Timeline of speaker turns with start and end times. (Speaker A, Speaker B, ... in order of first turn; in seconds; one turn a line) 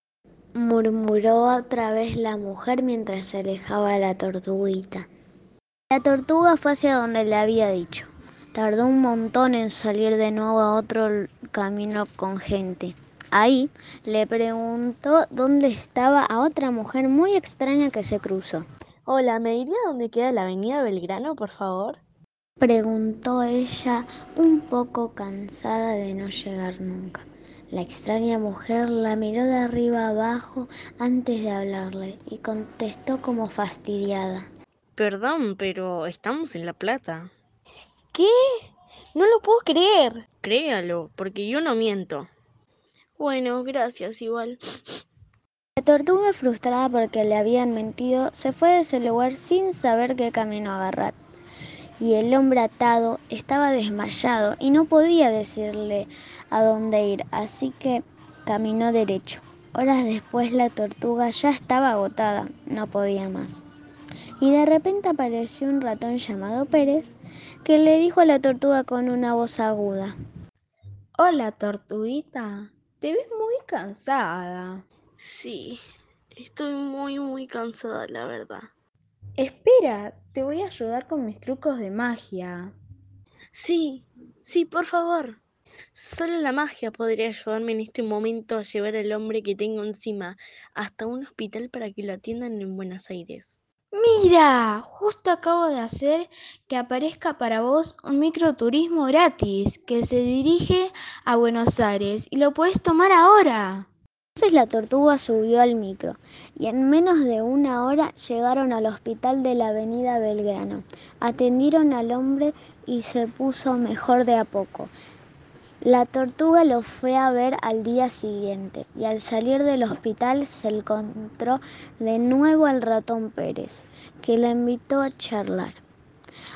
Speaker A: 0.6-5.1
Speaker A: 5.9-18.6
Speaker B: 19.1-22.0
Speaker A: 22.6-34.5
Speaker B: 35.0-37.3
Speaker B: 38.1-42.3
Speaker B: 43.2-45.0
Speaker A: 45.8-51.1
Speaker A: 52.0-63.6
Speaker A: 64.4-70.1
Speaker C: 71.2-74.8
Speaker B: 75.2-75.8
Speaker B: 76.3-78.7
Speaker C: 79.4-82.7
Speaker B: 83.5-85.4
Speaker B: 85.9-93.5
Speaker C: 93.9-103.9
Speaker A: 104.4-114.9
Speaker A: 115.8-125.8